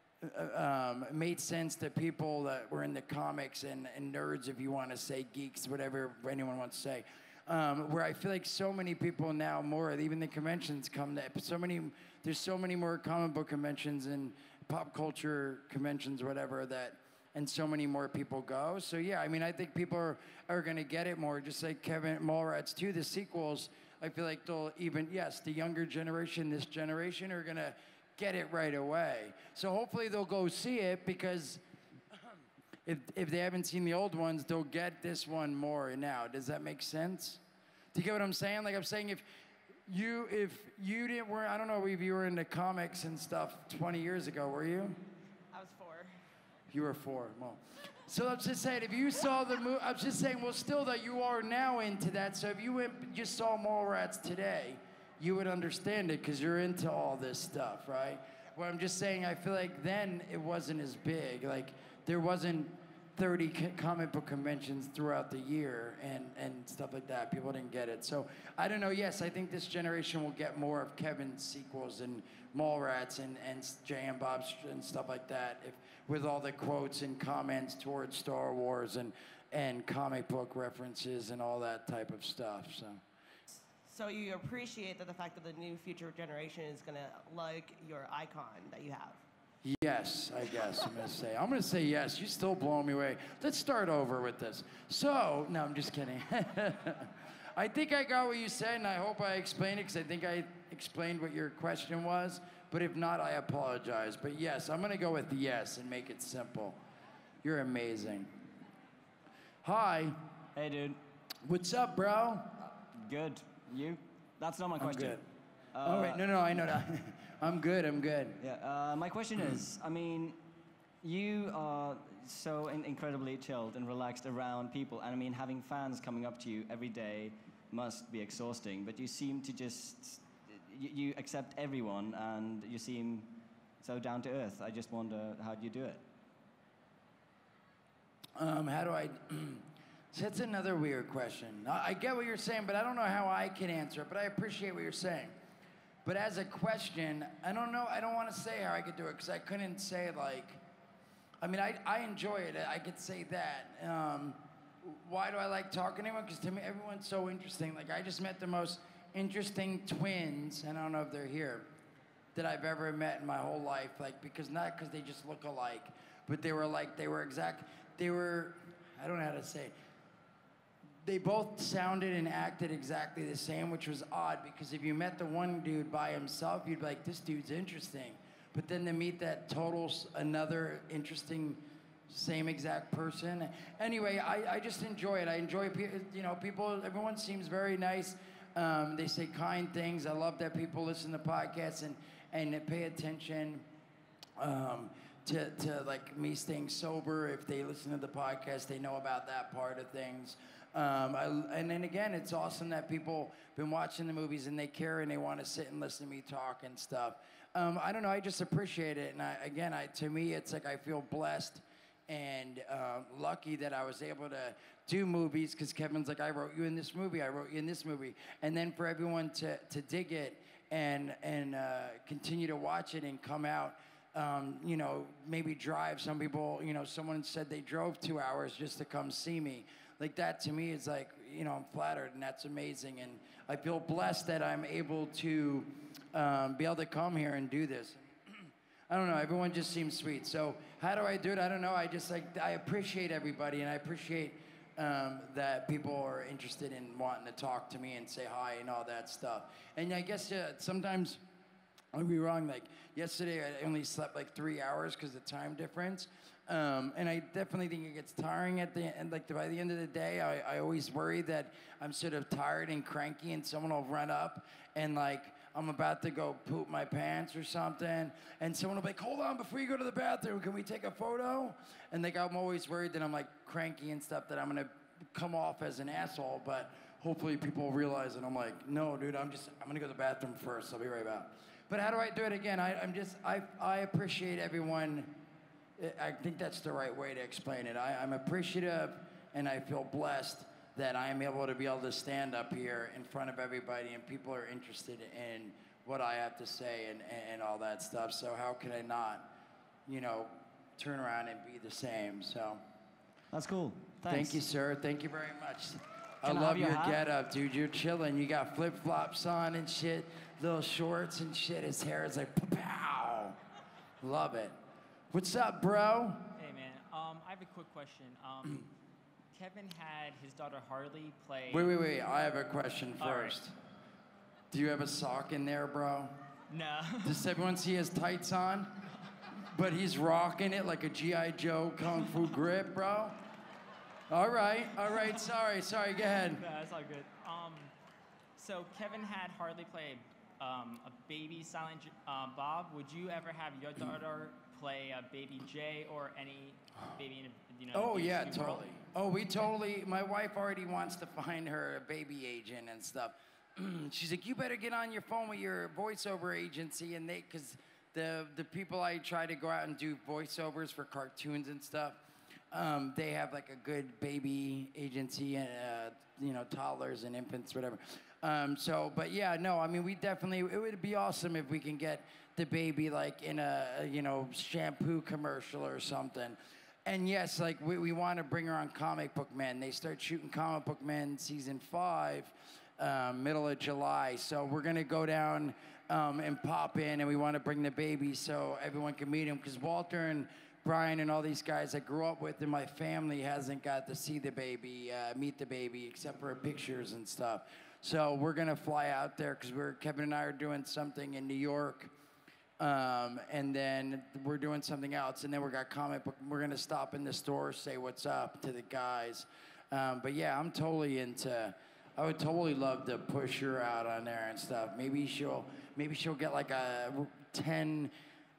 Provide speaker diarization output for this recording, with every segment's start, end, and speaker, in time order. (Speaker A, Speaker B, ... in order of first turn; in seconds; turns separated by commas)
Speaker A: 0.2-31.6, Speaker A: 32.9-37.4, Speaker A: 37.9-39.2, Speaker A: 39.9-45.0, Speaker B: 45.5-46.1, Speaker A: 46.7-83.0, Speaker B: 83.7-89.2, Speaker A: 89.6-106.8, Speaker A: 107.4-108.3, Speaker A: 109.6-110.2, Speaker C: 110.5-111.0, Speaker A: 111.4-112.6, Speaker C: 112.9-115.2, Speaker A: 114.8-115.2, Speaker C: 115.7-116.2, Speaker A: 115.8-118.4, Speaker C: 118.4-120.4, Speaker C: 121.0-136.0, Speaker A: 138.4-145.3, Speaker A: 146.0-150.6, Speaker A: 151.4-161.7, Speaker A: 162.3-169.7, Speaker A: 171.0-193.7, Speaker A: 194.4-251.2, Speaker A: 251.9-285.2, Speaker A: 285.8-299.3, Speaker A: 299.9-302.6, Speaker C: 303.3-304.4, Speaker A: 304.1-313.4, Speaker C: 306.2-307.0, Speaker A: 314.0-314.5, Speaker A: 315.1-316.3, Speaker D: 316.3-318.7, Speaker D: 319.3-321.7, Speaker A: 321.5-323.5, Speaker D: 323.0-323.4, Speaker A: 324.5-326.2, Speaker D: 326.5-327.3, Speaker A: 327.0-328.8, Speaker A: 329.4-333.2, Speaker A: 334.1-336.4, Speaker D: 336.4-337.7, Speaker D: 338.4-348.7, Speaker A: 347.7-362.0, Speaker A: 362.5-401.9, Speaker A: 402.6-417.9